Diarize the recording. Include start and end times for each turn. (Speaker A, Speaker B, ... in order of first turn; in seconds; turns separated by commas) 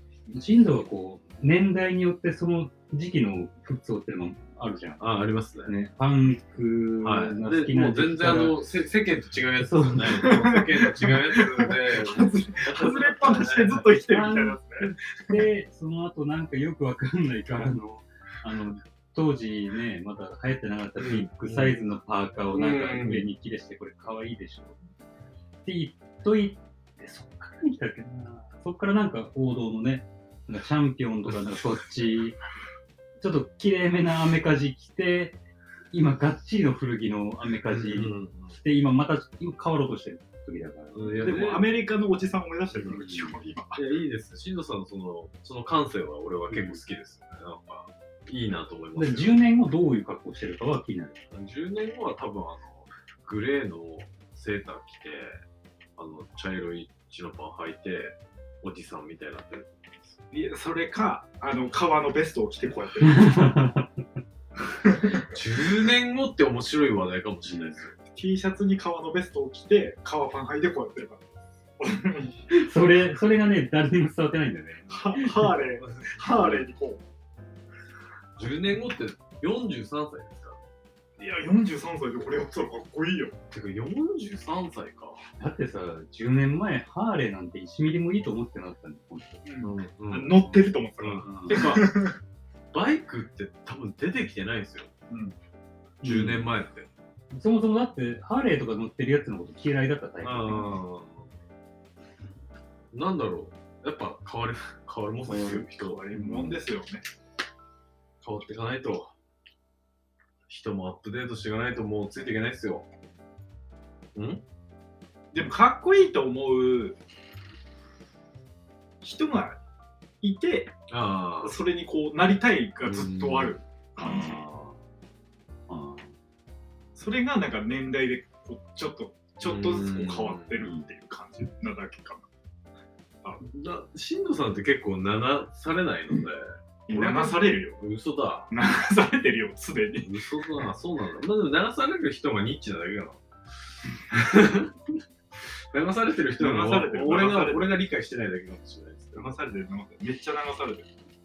Speaker A: 0.3-5.0, Speaker B: 5.0-5.7, Speaker A: 5.7-8.6, Speaker B: 7.0-13.8, Speaker A: 9.7-10.4, Speaker C: 10.2-14.9, Speaker A: 14.1-24.8, Speaker B: 21.0-21.8, Speaker B: 22.5-23.3, Speaker A: 25.6-32.4, Speaker A: 33.2-35.4, Speaker A: 35.9-41.2, Speaker B: 37.7-38.6, Speaker B: 40.9-41.8, Speaker C: 41.2-43.8, Speaker A: 42.9-43.4, Speaker B: 43.8-49.4, Speaker A: 46.5-46.8, Speaker A: 49.0-51.2, Speaker B: 51.3-55.4, Speaker B: 56.0-60.1, Speaker C: 60.3-63.4, Speaker A: 63.0-63.9, Speaker B: 65.3-68.0, Speaker A: 67.5-67.8, Speaker C: 68.2-71.2, Speaker C: 71.8-72.4, Speaker A: 72.5-75.5, Speaker C: 74.9-77.0, Speaker B: 75.8-76.6, Speaker B: 78.4-80.6, Speaker C: 81.2-83.3, Speaker B: 83.5-85.2, Speaker A: 85.4-89.5, Speaker C: 89.5-92.2, Speaker B: 89.6-92.0, Speaker A: 91.2-91.6, Speaker B: 92.7-94.9, Speaker C: 95.1-95.3, Speaker A: 96.0-96.5, Speaker B: 96.0-96.9, Speaker A: 97.3-100.8, Speaker B: 100.2-101.3, Speaker B: 102.9-106.2, Speaker A: 105.3-106.6, Speaker C: 105.5-107.0, Speaker B: 108.2-109.1, Speaker B: 110.5-112.9, Speaker B: 114.2-114.4, Speaker C: 115.3-117.0, Speaker C: 119.0-119.6, Speaker C: 120.2-120.8, Speaker B: 120.9-121.6, Speaker C: 121.4-124.4, Speaker B: 122.8-123.6, Speaker A: 124.0-124.8, Speaker A: 125.7-126.1, Speaker C: 127.0-132.3, Speaker B: 129.4-130.6, Speaker B: 133.5-138.5, Speaker C: 136.9-137.8, Speaker C: 138.5-140.2, Speaker B: 140.0-143.2, Speaker B: 144.1-144.8, Speaker B: 145.5-149.3, Speaker C: 146.4-147.8, Speaker C: 149.2-150.9